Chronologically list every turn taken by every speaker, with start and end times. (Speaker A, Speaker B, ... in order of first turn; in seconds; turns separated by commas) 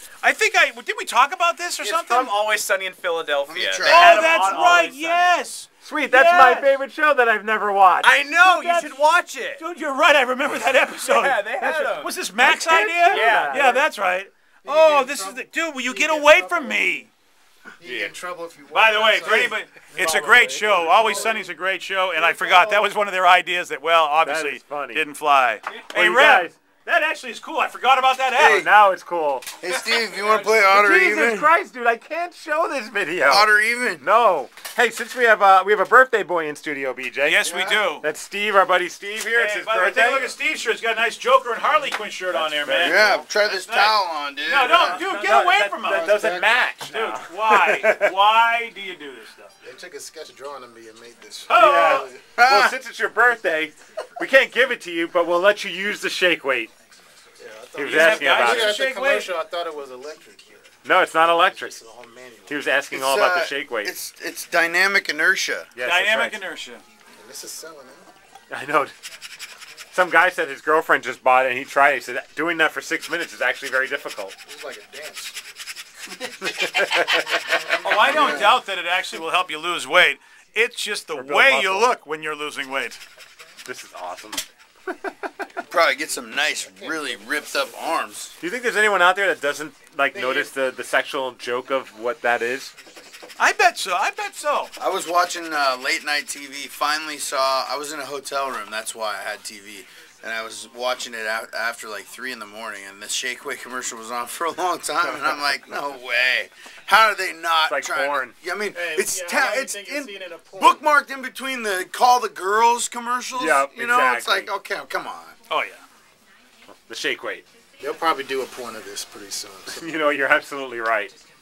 Speaker A: 0.2-2.4, Speaker B: 1.8-5.3, Speaker C: 3.5-4.4, Speaker A: 3.8-6.7, Speaker D: 4.0-4.8, Speaker D: 5.8-8.2, Speaker B: 8.0-9.6, Speaker A: 8.4-9.0, Speaker A: 9.6-17.1, Speaker B: 10.9-12.1, Speaker D: 12.4-13.8, Speaker B: 13.2-13.5, Speaker E: 14.6-16.8, Speaker E: 17.8-21.5, Speaker A: 18.7-28.7, Speaker D: 24.2-25.0, Speaker D: 25.9-26.6, Speaker C: 28.4-28.7, Speaker D: 28.4-29.5, Speaker C: 29.6-31.5, Speaker D: 30.7-40.3, Speaker C: 33.2-34.0, Speaker A: 37.2-38.0, Speaker A: 39.3-46.1, Speaker D: 42.3-43.2, Speaker C: 42.8-45.0, Speaker D: 44.8-48.0, Speaker E: 45.9-46.6, Speaker A: 46.9-49.5, Speaker E: 49.6-52.2, Speaker A: 51.5-52.1, Speaker D: 51.5-56.7, Speaker C: 52.3-52.8, Speaker E: 57.4-62.6, Speaker D: 57.7-58.8, Speaker A: 57.8-59.3, Speaker D: 60.8-61.8, Speaker D: 62.5-63.9, Speaker C: 62.9-65.7, Speaker D: 65.8-66.4, Speaker A: 65.8-66.8, Speaker E: 67.2-68.1, Speaker D: 68.5-68.9, Speaker D: 69.9-74.3, Speaker E: 74.5-75.3, Speaker D: 76.5-77.2, Speaker A: 77.8-83.0, Speaker E: 77.9-78.5, Speaker C: 78.0-78.6, Speaker D: 81.1-81.9, Speaker D: 83.6-84.4, Speaker C: 85.6-88.3, Speaker E: 86.8-87.9, Speaker D: 88.4-92.7, Speaker E: 90.2-90.5, Speaker A: 93.4-94.7, Speaker C: 94.8-115.3, Speaker D: 107.6-108.3, Speaker E: 108.7-110.8, Speaker D: 113.3-114.5, Speaker A: 115.5-115.8, Speaker D: 116.8-117.4, Speaker E: 117.8-119.8, Speaker D: 119.7-121.1